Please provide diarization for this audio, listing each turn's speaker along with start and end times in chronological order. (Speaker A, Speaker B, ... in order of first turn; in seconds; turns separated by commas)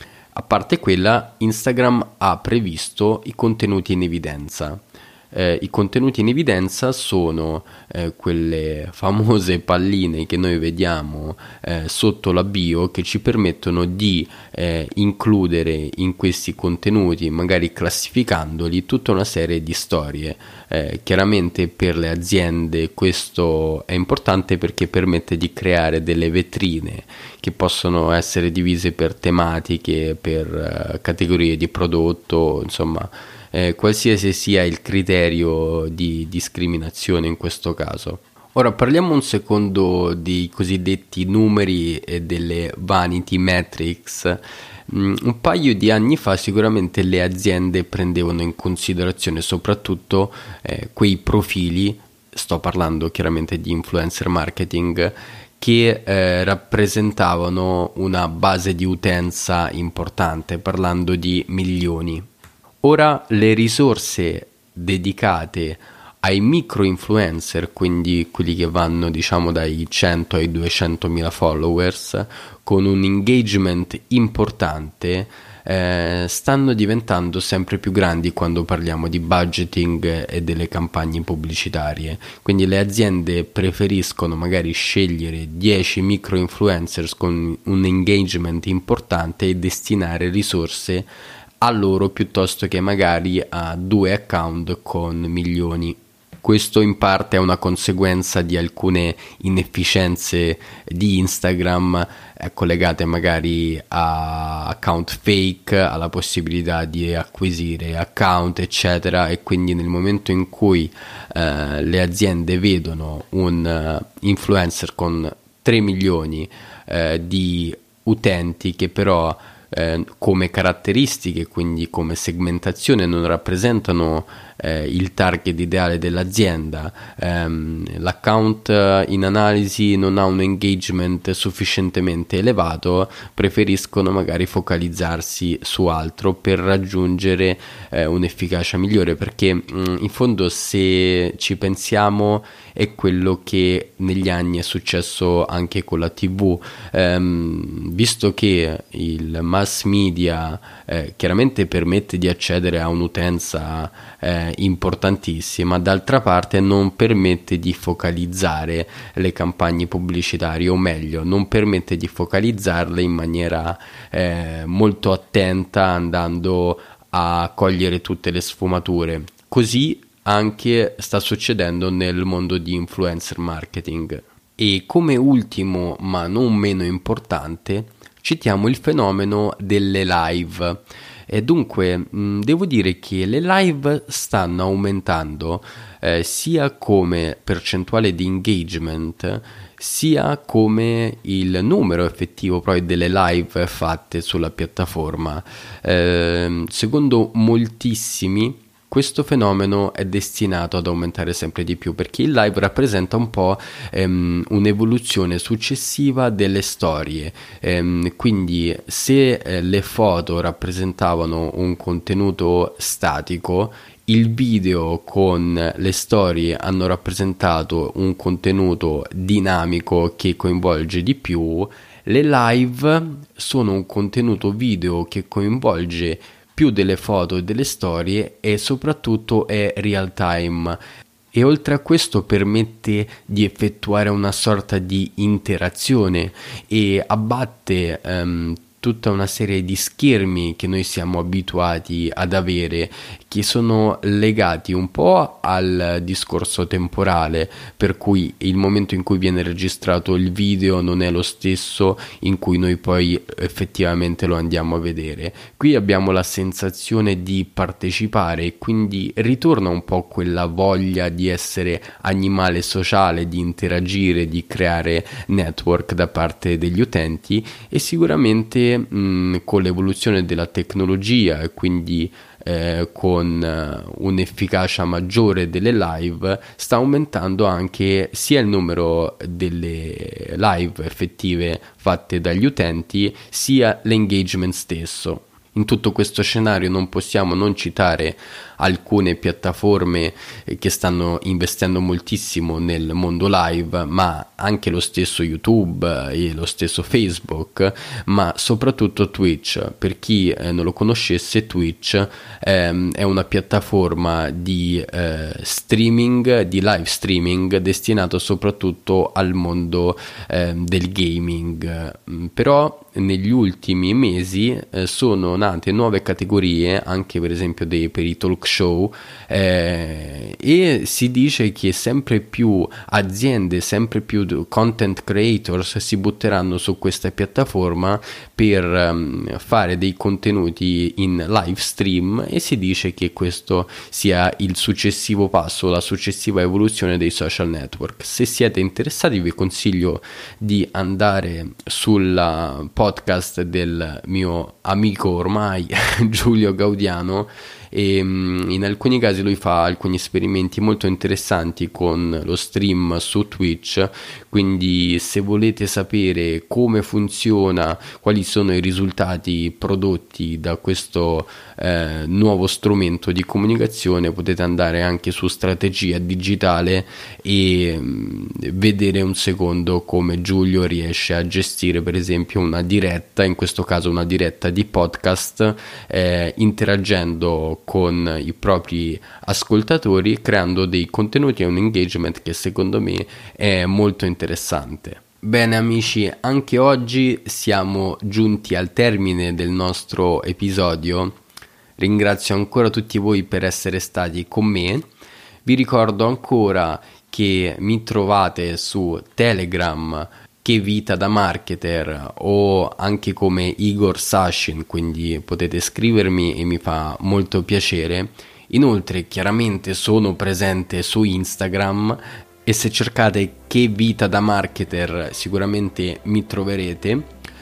Speaker A: 0.3-62.2, Speaker A: 62.8-91.1, Speaker A: 91.6-230.8, Speaker A: 231.3-391.2, Speaker A: 391.8-394.9, Speaker A: 395.4-417.1